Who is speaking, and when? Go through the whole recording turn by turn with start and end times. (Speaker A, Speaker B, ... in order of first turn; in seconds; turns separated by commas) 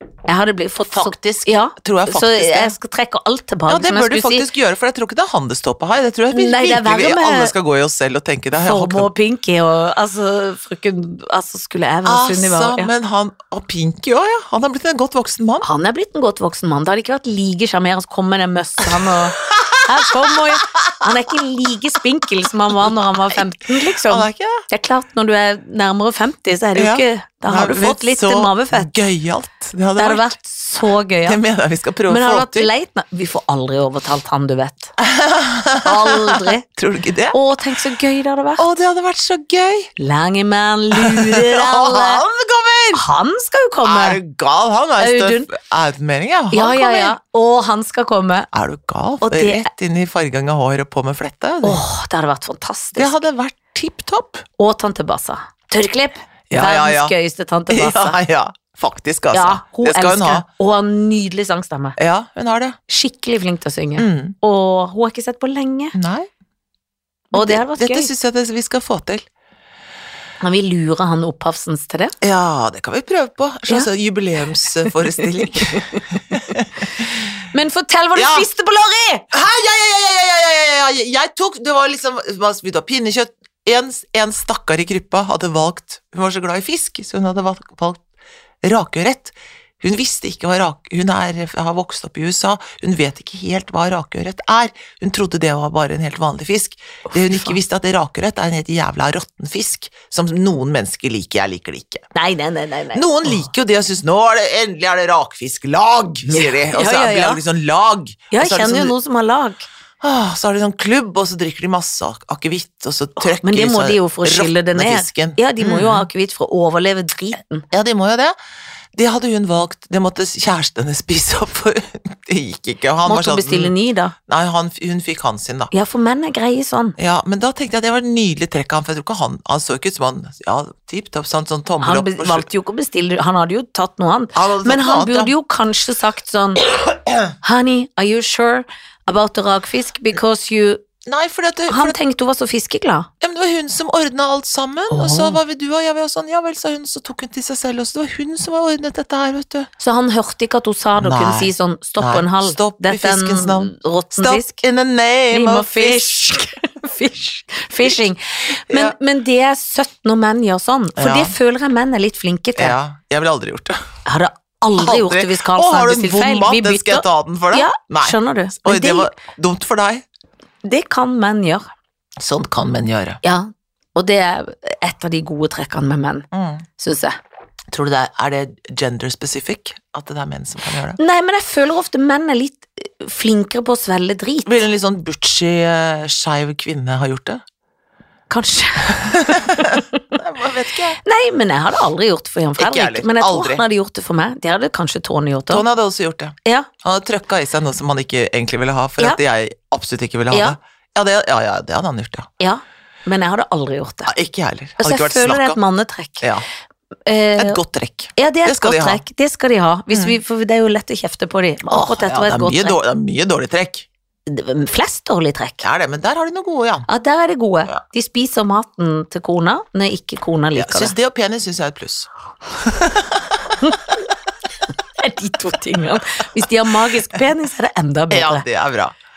Speaker A: 0.3-4.5, Speaker B: 0.9-2.7, Speaker B: 3.7-9.1, Speaker A: 6.3-7.5, Speaker A: 8.6-12.9, Speaker B: 12.0-15.6, Speaker A: 15.6-28.9, Speaker B: 19.5-21.1, Speaker B: 22.8-24.6, Speaker B: 26.8-30.3, Speaker A: 30.0-31.4, Speaker B: 31.2-32.7, Speaker A: 32.1-35.0, Speaker B: 35.0-37.4, Speaker A: 35.8-36.6, Speaker A: 37.3-38.6, Speaker B: 38.6-39.9, Speaker A: 40.0-42.2, Speaker B: 40.9-43.0, Speaker A: 42.9-44.2, Speaker B: 43.8-47.1, Speaker A: 45.0-45.5, Speaker A: 46.5-48.5, Speaker B: 48.5-51.8, Speaker A: 49.2-49.7, Speaker A: 51.6-53.1, Speaker B: 53.0-54.4, Speaker A: 54.6-58.2, Speaker B: 56.5-57.1, Speaker B: 57.7-60.5, Speaker A: 59.3-62.0, Speaker B: 62.0-62.8, Speaker A: 62.9-66.0, Speaker B: 64.0-64.3, Speaker B: 65.9-66.3, Speaker A: 67.3-68.1, Speaker B: 67.3-69.3, Speaker A: 70.4-72.1, Speaker B: 72.2-77.2, Speaker A: 74.8-76.2, Speaker A: 77.5-79.3, Speaker B: 78.1-78.5, Speaker B: 79.3-88.0, Speaker B: 88.6-102.0, Speaker A: 97.1-97.5, Speaker A: 102.1-103.4, Speaker B: 102.9-108.9, Speaker A: 106.3-107.4, Speaker A: 108.3-109.7, Speaker B: 110.0-116.1, Speaker A: 113.2-117.7, Speaker B: 117.7-118.3, Speaker B: 118.9-123.7, Speaker A: 123.0-124.1, Speaker B: 124.3-125.7, Speaker A: 125.7-127.0, Speaker B: 127.0-132.4, Speaker A: 131.8-136.7, Speaker B: 134.3-135.3, Speaker A: 137.4-140.8, Speaker B: 141.0-141.9, Speaker A: 141.7-143.1, Speaker B: 143.2-149.7, Speaker A: 144.9-145.4, Speaker A: 149.8-154.6, Speaker B: 151.0-156.2, Speaker A: 155.3-162.8, Speaker B: 158.7-158.9, Speaker B: 161.0-161.3, Speaker B: 162.6-163.8, Speaker A: 164.1-169.1, Speaker B: 164.8-170.0, Speaker A: 170.6-171.7, Speaker B: 172.2-173.2, Speaker A: 173.2-177.2, Speaker B: 176.3-176.6, Speaker B: 177.7-181.0, Speaker A: 181.0-184.5, Speaker B: 184.4-187.4, Speaker A: 188.3-190.0, Speaker B: 188.8-191.0, Speaker A: 191.0-195.6, Speaker B: 192.6-193.6, Speaker B: 195.5-202.3, Speaker A: 200.3-200.6, Speaker A: 202.4-204.1, Speaker B: 204.1-205.6, Speaker A: 204.8-206.3, Speaker A: 207.1-207.6, Speaker B: 207.4-209.0, Speaker A: 208.1-212.8, Speaker B: 211.7-213.9, Speaker A: 214.3-215.6, Speaker B: 215.6-216.9, Speaker A: 216.9-220.9, Speaker B: 220.5-223.9, Speaker A: 225.0-228.4, Speaker B: 228.1-228.9